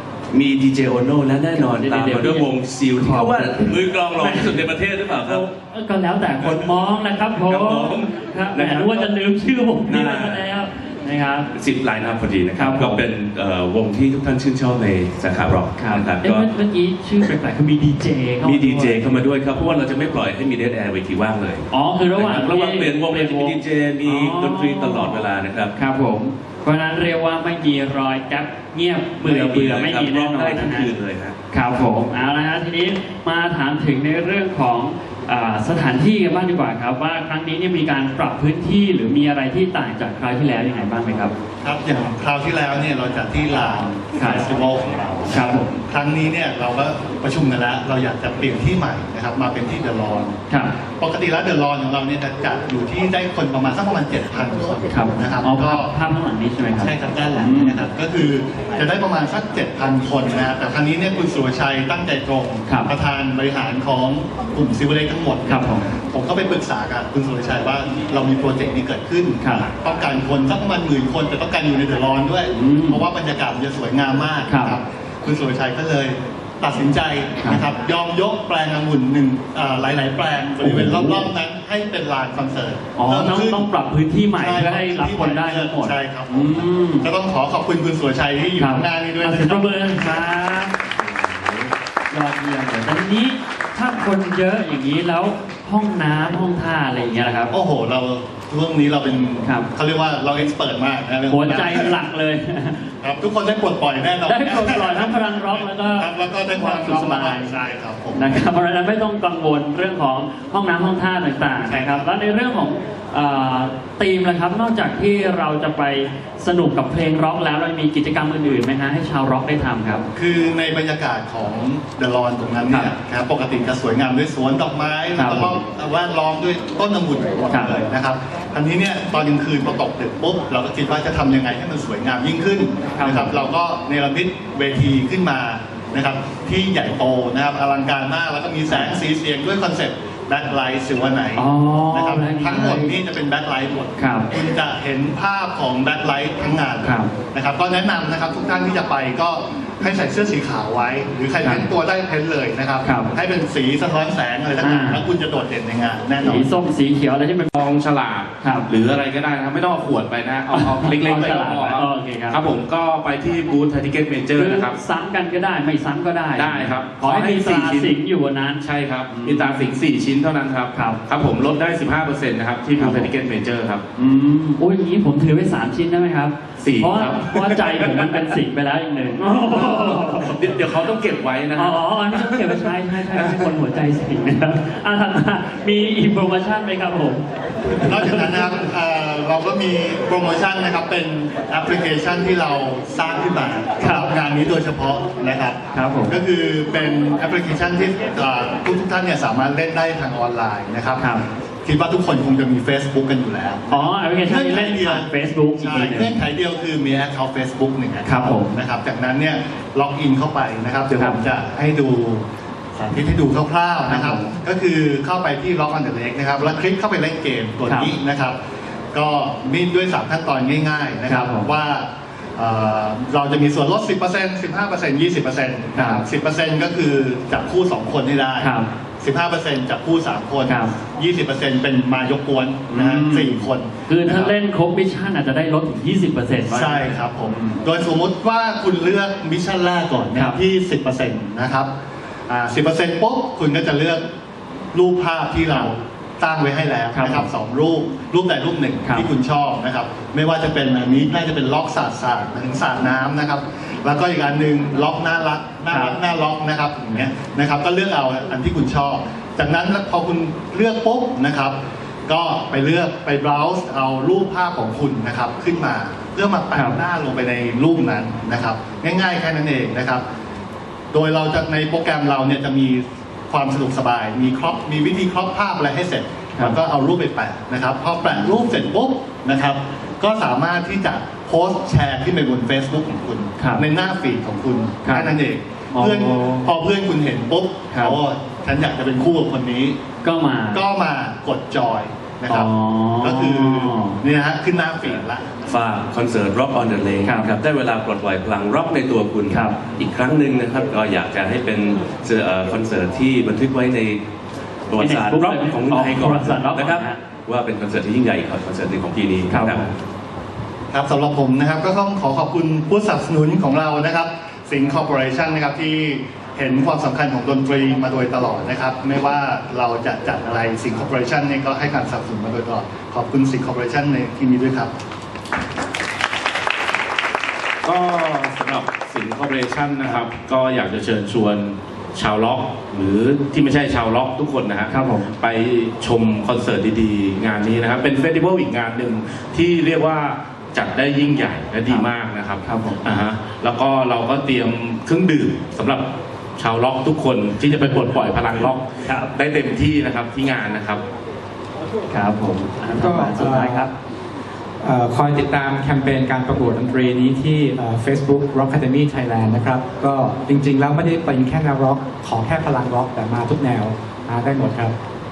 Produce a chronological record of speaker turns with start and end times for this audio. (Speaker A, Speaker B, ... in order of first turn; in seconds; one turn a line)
Speaker A: 0.3-5.5
Speaker B: 1.5-11.5
Speaker A: 6.4-6.7
Speaker A: 7.5-9.1
Speaker A: 9.9-10.4
Speaker A: 11.5-16.5
Speaker B: 12.6-13.0
Speaker B: 15.8-19.1
Speaker A: 18.4-25.7
Speaker B: 21.7-30.9
Speaker A: 29.2-31.4
Speaker B: 31.5-41.3
Speaker C: 41.6-50.4
Speaker B: 44.1-44.4
Speaker B: 45.3-45.7
Speaker C: 51.0-55.9
Speaker B: 54.9-57.9
Speaker C: 56.8-83.7
Speaker B: 65.5-65.9
Speaker B: 69.4-69.7
Speaker B: 72.5-73.0
Speaker B: 74.5-74.8
Speaker B: 80.6-81.3
Speaker B: 83.0-87.1
Speaker C: 84.4-90.2
Speaker B: 88.6-90.8
Speaker B: 92.1-97.5
Speaker C: 97.5-102.0
Speaker B: 99.4-99.7
Speaker B: 101.3-102.9
Speaker C: 103.0-108.4
Speaker B: 104.3-107.5
Speaker B: 108.2-120.1
Speaker C: 111.6-112.1
Speaker C: 120.2-156.5
Speaker B: 125.2-125.6
Speaker B: 127.5-127.8
Speaker B: 133.0-133.3
Speaker B: 138.7-139.0
Speaker B: 141.4-142.9
Speaker B: 144.0-144.3
Speaker B: 146.8-147.1
Speaker B: 152.8-153.1
Speaker B: 154.6-155.0
Speaker B: 156.2-157.5
Speaker D: 157.5-164.8
Speaker B: 158.4-158.7
Speaker B: 160.5-162.4
Speaker B: 164.3-169.7
Speaker D: 166.4-168.0
Speaker D: 168.6-173.8
Speaker B: 170.7-171.0
Speaker B: 172.8-173.1
Speaker B: 174.0-180.4
Speaker D: 176.6-178.2
Speaker D: 179.3-183.5
Speaker B: 181.6-188.5
Speaker C: 187.8-201.1
Speaker B: 193.8-194.1
Speaker B: 195.7-196.1
Speaker B: 201.0-201.2
Speaker C: 201.6-212.2
Speaker B: 203.7-206.2
Speaker B: 208.1-208.5
Speaker B: 210.9-211.2
Speaker C: 212.8-218.4
Speaker B: 213.9-214.3
Speaker B: 217.7-217.9
Speaker C: 218.9-234.3
Speaker B: 221.1-221.5
Speaker B: 225.7-226.0
Speaker B: 228.4-228.7
Speaker B: 230.5-230.7
Speaker B: 232.7-237.6
Speaker C: 236.5-241.7
Speaker C: 242.3-244.1
Speaker C: 244.7-270.0
Speaker B: 246.9-247.3
Speaker B: 255.7-256.0
Speaker C: 270.9-289.8
Speaker B: 283.4-283.7
Speaker B: 284.8-285.2
Speaker B: 285.7-286.5
Speaker B: 287.7-288.0
Speaker B: 290.0-290.7
Speaker C: 290.5-295.3
Speaker B: 292.3-294.0
Speaker A: 295.5-304.0
Speaker B: 297.1-297.3
Speaker B: 299.3-299.6
Speaker A: 304.7-309.8
Speaker B: 304.8-307.0
Speaker B: 309.3-309.7
Speaker C: 310.7-324.7
Speaker D: 327.6-350.8
Speaker B: 334.7-335.1
Speaker B: 342.4-342.8
Speaker B: 348.9-349.1
Speaker B: 351.9-353.7
Speaker E: 352.8-353.7
Speaker E: 354.6-364.8